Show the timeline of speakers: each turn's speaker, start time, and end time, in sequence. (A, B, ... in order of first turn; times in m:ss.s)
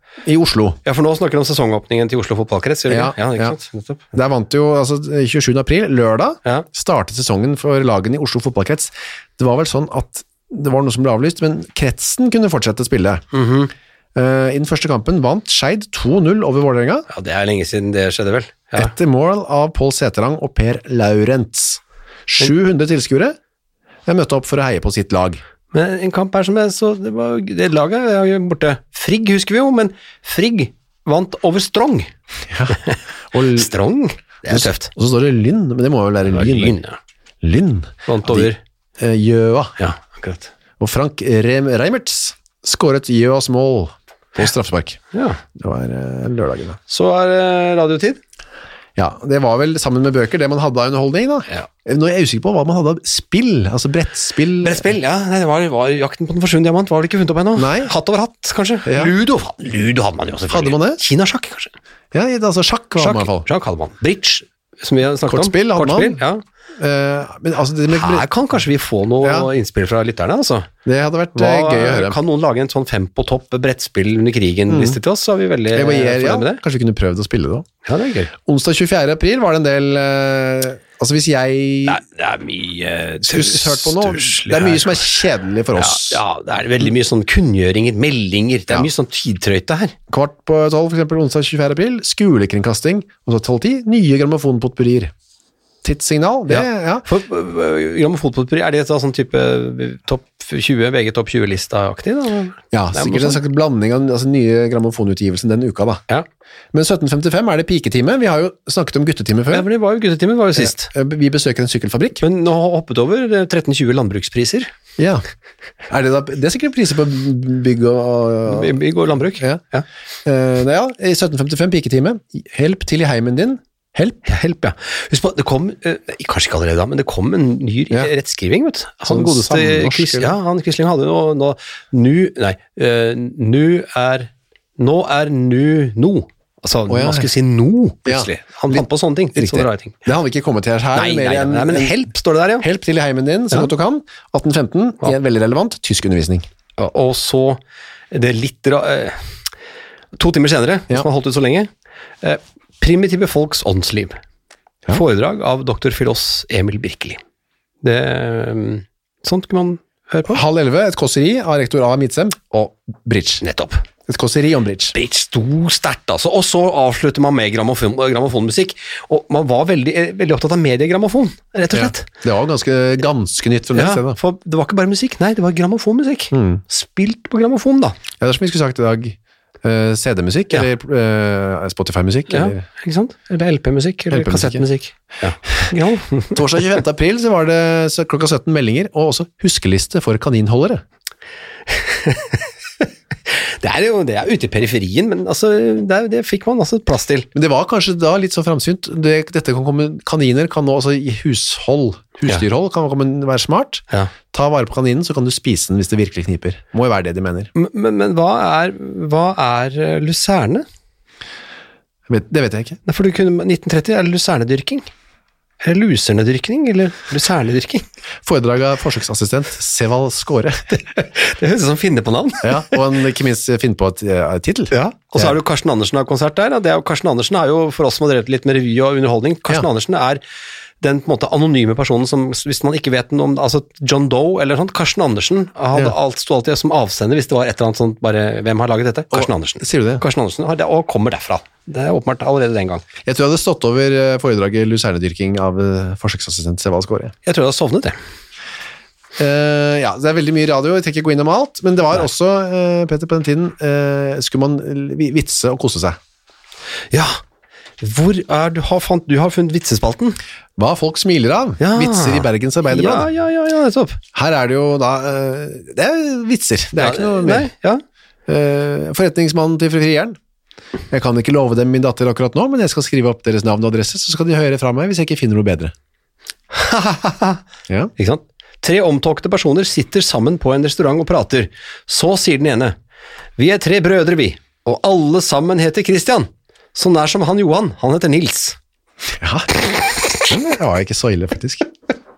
0:00.2-0:00.8 A
0:00.8-0:04.0 B
0:02.9-0:03.6 A
0:04.1-0:13.2 A
0:13.3-0:13.7 B
0:14.1-0:17.1 A
0:17.1-0:18.9 B
0:18.7-0:23.4 A
0:24.0-0:25.4 A
0:25.7-0:32.1 B
0:32.5-0:32.8 A
0:32.7-0:34.9 B
0:33.3-0:33.7 A
0:34.5-0:36.8 A
0:36.2-0:37.0 B
0:37.4-0:39.8 A
0:38.1-0:38.6 B
0:39.8-0:40.5 B
0:40.8-0:45.0 A
0:45.1-0:45.4 B
0:45.5-0:46.8 A
0:46.9-0:48.2 B
0:49.0-0:54.9 A
0:54.6-1:01.7 B
0:57.5-0:57.9 A
0:58.8-0:59.1 A
1:00.5-1:01.0 A
1:02.1-1:03.5 A
1:03.0-1:06.4 B
1:05.2-1:06.2 A
1:06.8-1:08.3 A
1:07.9-1:10.7 B
1:09.2-1:09.5 A
1:10.8-1:12.2 A
1:11.4-1:16.6 B
1:14.7-1:15.0 A
1:15.7-1:17.7 A
1:17.8-1:18.3 B
1:18.4-1:22.0 A
1:21.8-1:29.9 B
1:23.2-1:26.2 A
1:30.1-1:35.1 A
1:35.8-1:37.0 A
1:36.5-1:43.4 B
1:42.7-1:46.0 A
1:46.7-1:49.7 A
1:49.5-1:50.9 B
1:50.6-1:52.2 A
1:52.2-1:54.7 B
1:55.0-1:55.2 A
1:55.9-1:58.8 A
1:58.4-1:59.8 B
2:00.2-2:04.2 A
2:04.2-2:20.0 B
2:09.0-2:10.3 A
2:16.9-2:17.3 A
2:18.0-2:22.0 A
2:20.9-2:22.7 B
2:22.6-2:26.4 A
2:26.8-2:29.2 B
2:30.2-2:31.7 B
2:32.2-2:34.2 B
2:34.9-2:37.2 B
2:37.8-2:40.4 B
2:40.3-2:43.4 A
2:43.4-2:43.8 B
2:44.1-2:44.9 A
2:44.9-2:52.1 B
2:51.7-2:54.2 A
2:53.7-2:58.0 B
2:56.3-2:56.6 A
2:58.2-3:02.6 A
3:02.3-3:06.8 B
3:04.1-3:04.6 A
3:06.3-3:10.8 A
3:11.7-3:17.3 B
3:17.3-3:27.5 A
3:27.5-3:30.6 B
3:32.1-3:32.8 A
3:32.9-3:34.9 B
3:35.6-3:37.8 B
3:38.2-3:40.6 A
3:40.7-3:42.8 B
3:42.4-3:45.3 A
3:44.7-3:50.2 B
3:50.8-4:02.8 B
3:59.1-4:00.0 A
4:03.0-4:07.1 A
4:07.2-4:08.0 B
4:09.2-4:16.0 A
4:16.9-4:17.2 B
4:17.8-4:20.2 B
4:20.6-4:23.1 A
4:21.6-4:24.0 B
4:24.1-4:27.5 A
4:26.8-4:27.8 B
4:28.3-4:30.2 A
4:30.9-4:35.7 A
4:36.5-4:37.4 B
4:38.0-4:42.8 B
4:43.4-4:48.6 B
4:49.2-4:51.7 A